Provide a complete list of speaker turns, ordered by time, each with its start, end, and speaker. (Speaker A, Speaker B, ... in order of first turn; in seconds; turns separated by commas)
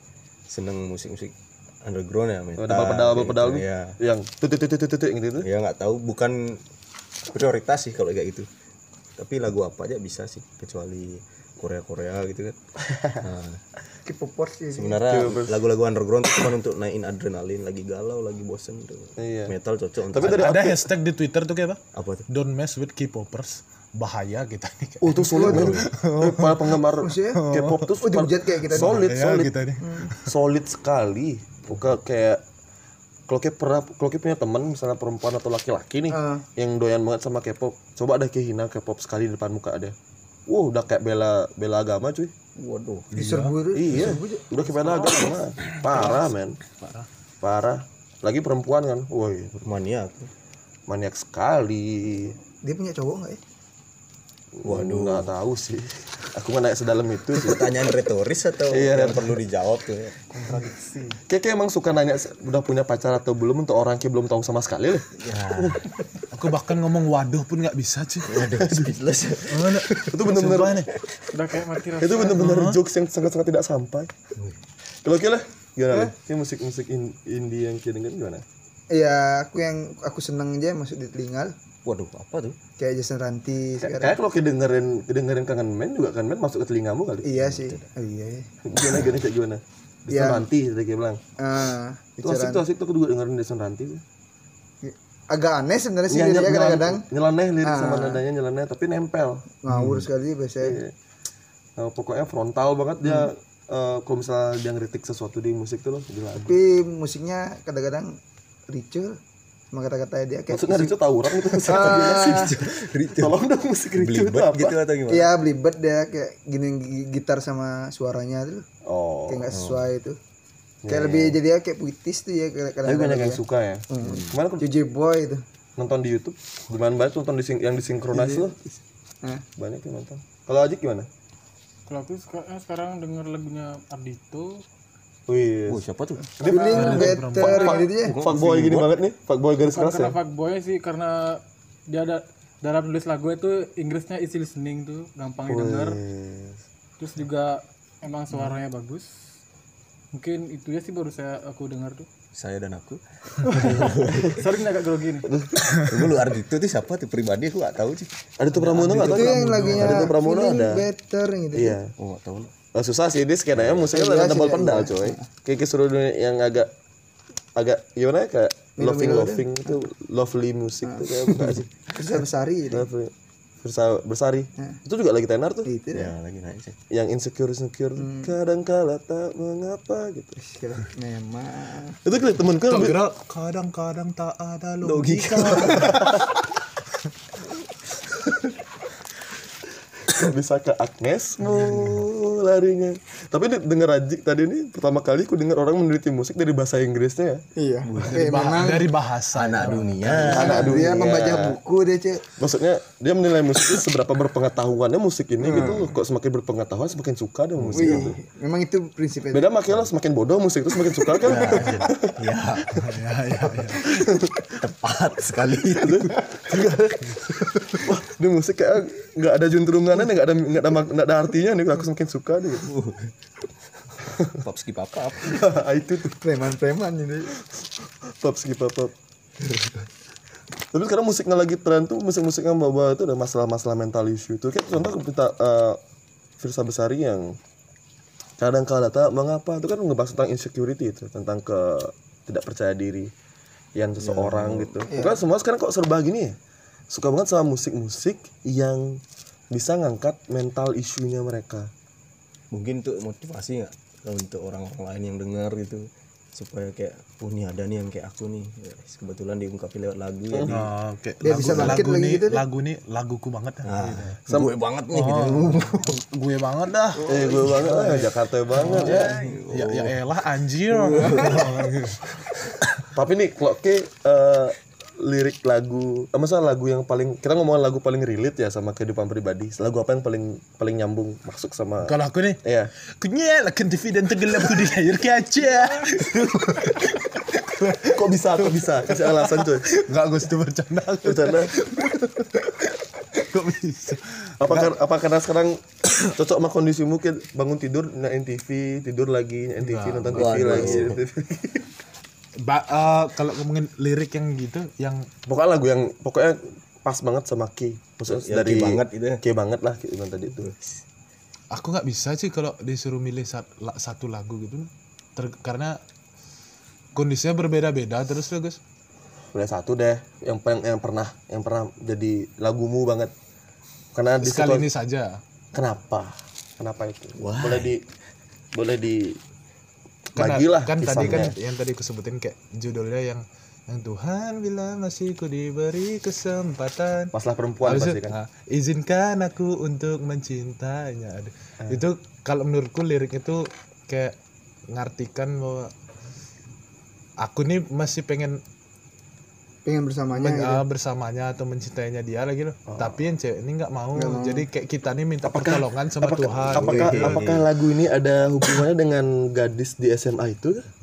Speaker A: 0.5-4.0, Speaker B: 2.6-5.5, Speaker A: 5.4-6.6, Speaker A: 7.3-8.5, Speaker A: 9.2-12.6, Speaker B: 12.8-13.2, Speaker A: 13.2-13.6, Speaker C: 14.1-15.0, Speaker A: 14.7-20.6, Speaker B: 15.1-15.6, Speaker B: 19.2-19.5, Speaker B: 20.1-20.9, Speaker D: 20.2-26.8, Speaker A: 21.9-22.3, Speaker B: 25.0-29.5, Speaker C: 25.3-25.7, Speaker A: 25.5-25.9, Speaker C: 27.0-27.4, Speaker D: 27.4-27.9, Speaker C: 28.0-29.0, Speaker D: 28.7-30.3, Speaker C: 29.8-30.1, Speaker B: 30.2-32.4, Speaker B: 33.3-39.9, Speaker C: 36.1-36.4, Speaker B: 40.5-42.3, Speaker A: 42.6-43.1, Speaker D: 43.1-43.5, Speaker C: 43.1-45.3, Speaker B: 43.7-46.6, Speaker D: 45.9-46.2, Speaker D: 46.8-47.1, Speaker B: 47.4-49.6, Speaker A: 49.6-50.3, Speaker B: 50.9-52.4, Speaker C: 52.6-53.4, Speaker B: 54.5-57.9, Speaker A: 54.6-55.3, Speaker A: 57.3-60.3, Speaker B: 58.7-59.4, Speaker C: 60.4-61.1, Speaker B: 61.2-65.8, Speaker A: 65.2-65.9, Speaker D: 66.3-68.6, Speaker A: 68.2-70.3, Speaker D: 69.5-70.9, Speaker B: 70.1-70.9, Speaker A: 70.9-71.2, Speaker E: 71.3-72.4, Speaker B: 72.0-74.1, Speaker D: 72.3-72.8, Speaker B: 75.0-78.4, Speaker C: 78.9-81.5, Speaker A: 81.8-82.6, Speaker C: 82.8-84.2, Speaker B: 83.8-87.3, Speaker C: 87.2-88.5, Speaker A: 87.4-87.9, Speaker B: 88.6-91.2, Speaker A: 88.8-89.2, Speaker C: 90.1-90.5, Speaker C: 91.4-92.6, Speaker B: 92.2-94.0, Speaker C: 94.8-97.0, Speaker B: 96.1-99.5, Speaker C: 97.6-98.2, Speaker C: 99.6-100.8, Speaker A: 99.7-100.0, Speaker B: 100.6-100.9, Speaker B: 101.8-106.6, Speaker C: 106.4-108.2, Speaker C: 108.7-109.2, Speaker C: 109.7-111.0, Speaker B: 110.5-114.8, Speaker C: 111.5-112.5, Speaker A: 111.7-113.3, Speaker A: 114.0-115.3, Speaker C: 115.1-118.7, Speaker B: 118.8-119.5, Speaker C: 119.3-120.2, Speaker A: 119.5-119.8, Speaker B: 120.8-121.4, Speaker C: 120.9-125.4, Speaker B: 122.8-124.7, Speaker A: 124.0-124.4, Speaker B: 125.8-128.6, Speaker C: 128.1-128.6, Speaker B: 129.6-131.1, Speaker E: 131.9-134.6, Speaker B: 135.3-135.8, Speaker A: 135.7-136.3, Speaker C: 136.4-138.2, Speaker B: 136.4-140.2, Speaker D: 136.7-137.8, Speaker E: 136.7-137.1, Speaker A: 138.0-138.9, Speaker E: 139.7-146.0, Speaker B: 145.5-146.6, Speaker E: 147.0-149.1, Speaker E: 150.1-152.1, Speaker A: 152.3-154.4, Speaker E: 153.5-155.3, Speaker B: 153.7-154.3, Speaker B: 155.2-155.6, Speaker D: 155.6-156.0, Speaker A: 155.6-160.1, Speaker B: 158.4-160.9, Speaker D: 158.9-159.8, Speaker C: 159.0-161.8, Speaker B: 161.5-161.9, Speaker A: 162.0-162.5, Speaker B: 162.7-166.7, Speaker A: 163.5-163.8, Speaker C: 163.9-165.2, Speaker B: 167.6-171.7, Speaker C: 168.8-169.8, Speaker C: 170.8-172.9, Speaker B: 172.7-175.7, Speaker C: 175.6-176.1, Speaker A: 175.9-176.8, Speaker B: 176.9-180.4, Speaker C: 178.0-178.3, Speaker C: 180.4-182.0, Speaker B: 182.0-183.0, Speaker D: 182.7-186.2, Speaker A: 184.8-186.2, Speaker B: 185.6-186.3, Speaker B: 190.1-197.4, Speaker D: 191.6-191.9, Speaker C: 197.6-198.9, Speaker A: 197.8-198.2, Speaker D: 198.0-200.6, Speaker A: 199.3-201.0, Speaker B: 200.1-201.6, Speaker C: 200.2-202.2, Speaker B: 202.4-208.2, Speaker C: 205.4-205.9, Speaker A: 207.6-208.2, Speaker C: 207.7-209.5, Speaker B: 209.3-212.2, Speaker A: 211.2-212.8, Speaker D: 211.5-211.9, Speaker D: 212.8-214.1, Speaker B: 213.8-214.6, Speaker A: 214.6-216.2, Speaker B: 215.7-222.7, Speaker A: 222.6-223.1, Speaker A: 223.9-225.4, Speaker B: 224.1-224.4, Speaker B: 225.2-226.2, Speaker C: 226.2-227.3, Speaker B: 227.5-228.9, Speaker B: 230.7-235.8, Speaker B: 236.4-237.4, Speaker B: 238.4-243.1, Speaker B: 243.8-246.4, Speaker A: 244.0-244.7, Speaker C: 244.9-245.2, Speaker B: 246.9-251.7, Speaker A: 252.5-260.7, Speaker B: 260.3-260.6, Speaker D: 260.5-264.2, Speaker C: 261.2-262.4, Speaker A: 261.5-261.8, Speaker A: 263.6-266.0, Speaker D: 264.9-268.0, Speaker A: 266.9-268.0, Speaker B: 267.1-269.1, Speaker D: 268.5-272.1, Speaker A: 268.6-272.5, Speaker B: 272.9-282.7, Speaker D: 281.8-282.4, Speaker D: 283.0-292.5, Speaker B: 287.8-289.7, Speaker B: 291.0-291.6, Speaker D: 293.1-294.7, Speaker B: 294.4-301.7, Speaker D: 299.6-300.8, Speaker A: 300.1-301.0, Speaker D: 302.4-305.1, Speaker B: 305.2-310.5, Speaker A: 308.1-309.2, Speaker A: 310.4-310.7, Speaker D: 311.5-315.8, Speaker D: 316.9-318.6, Speaker B: 319.3-323.1, Speaker B: 323.9-324.7, Speaker D: 324.2-325.2, Speaker B: 325.5-327.8, Speaker A: 327.1-327.7, Speaker B: 328.5-329.2, Speaker B: 330.1-331.4, Speaker D: 330.1-337.1, Speaker B: 337.1-338.2, Speaker D: 337.6-344.1, Speaker D: 344.7-345.7, Speaker D: 347.2-348.4, Speaker C: 349.6-350.6, Speaker D: 350.1-357.2, Speaker B: 352.7-353.0, Speaker C: 353.9-354.5, Speaker B: 355.2-360.6, Speaker A: 356.5-357.5